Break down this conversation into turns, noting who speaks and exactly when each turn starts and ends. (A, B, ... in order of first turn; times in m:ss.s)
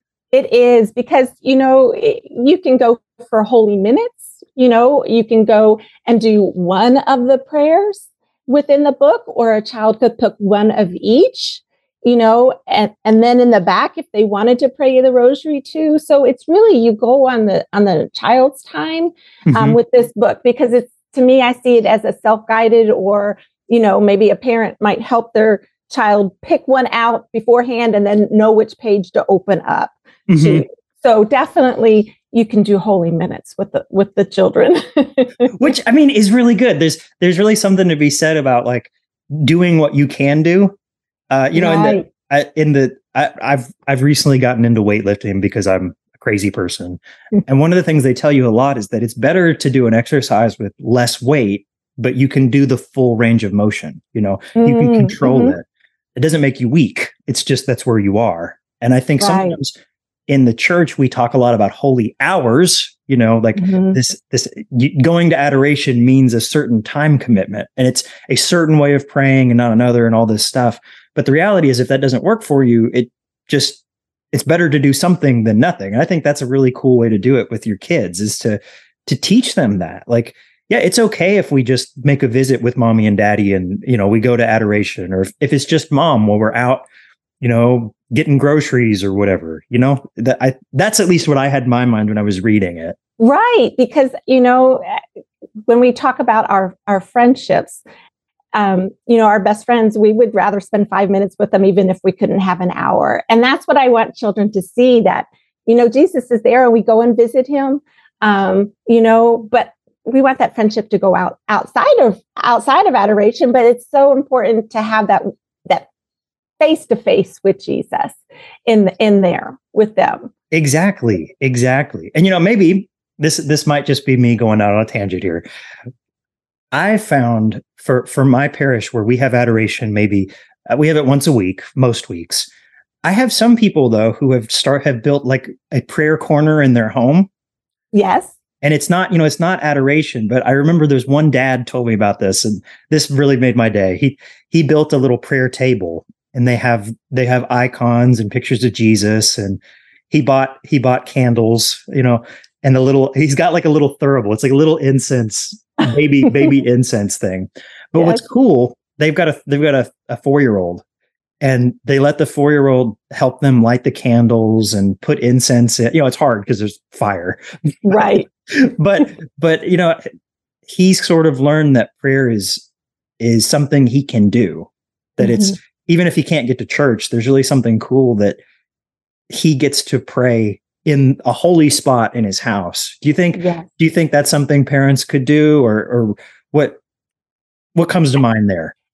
0:00.3-0:35.6 A
0:19.5-0:19.8 B
0:30.3-0:30.6 B
0:35.5-0:40.7 B
0:41.3-0:55.6 B
0:41.5-0:42.1 A
0:54.6-0:55.6 A
0:56.2-0:59.8 B
0:59.2-0:59.6 A
1:00.3-1:13.8 B
1:03.6-1:04.0 A
1:14.3-1:26.8 B
1:27.4-1:33.0 B
1:33.2-1:35.0 A
1:35.7-1:37.8 A
1:38.5-1:55.9 A
1:56.6-2:00.3 A
2:00.5-2:05.4 B
2:06.7-2:12.5 B
2:13.0-2:17.3 B
2:17.9-2:18.3 A
2:18.6-2:40.8 B
2:38.0-2:38.2 A
2:41.4-2:50.0 B
2:47.9-2:48.2 A
2:50.7-2:52.6 B
2:53.2-2:58.4 B
2:55.2-2:55.5 A
2:59.3-3:06.8 B
3:03.3-3:03.7 A
3:07.7-3:08.7 B